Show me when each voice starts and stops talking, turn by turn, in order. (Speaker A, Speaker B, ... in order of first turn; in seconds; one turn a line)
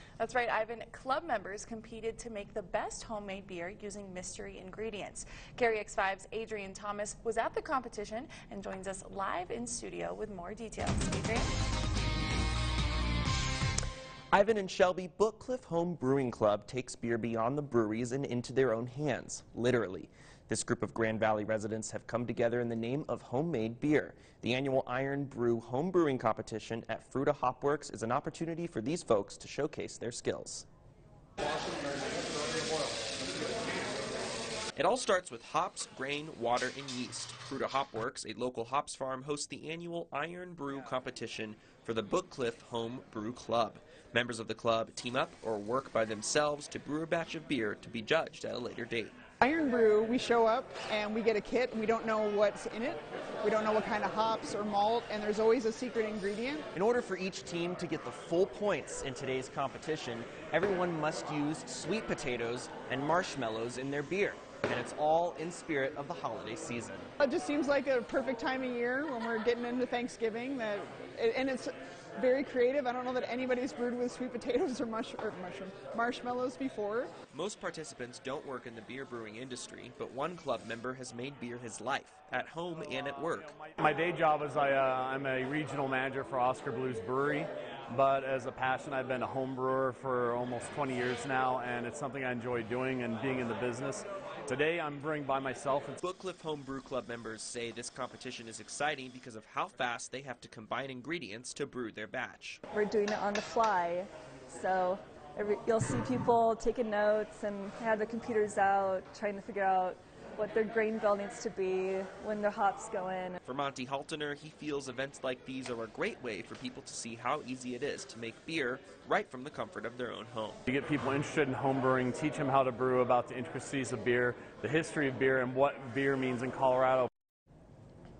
Speaker A: 0.2-11.5
Speaker B: 14.3-30.7
Speaker B: 34.8-49.1
Speaker C: 49.4-56.6
Speaker B: 56.7-67.1
Speaker C: 67.2-77.1
Speaker B: 77.3-83.6
Speaker D: 83.0-96.0
Speaker B: 96.0-102.6
Speaker E: 102.7-113.4
Speaker B: 113.4-120.6
Speaker D: 120.7-127.1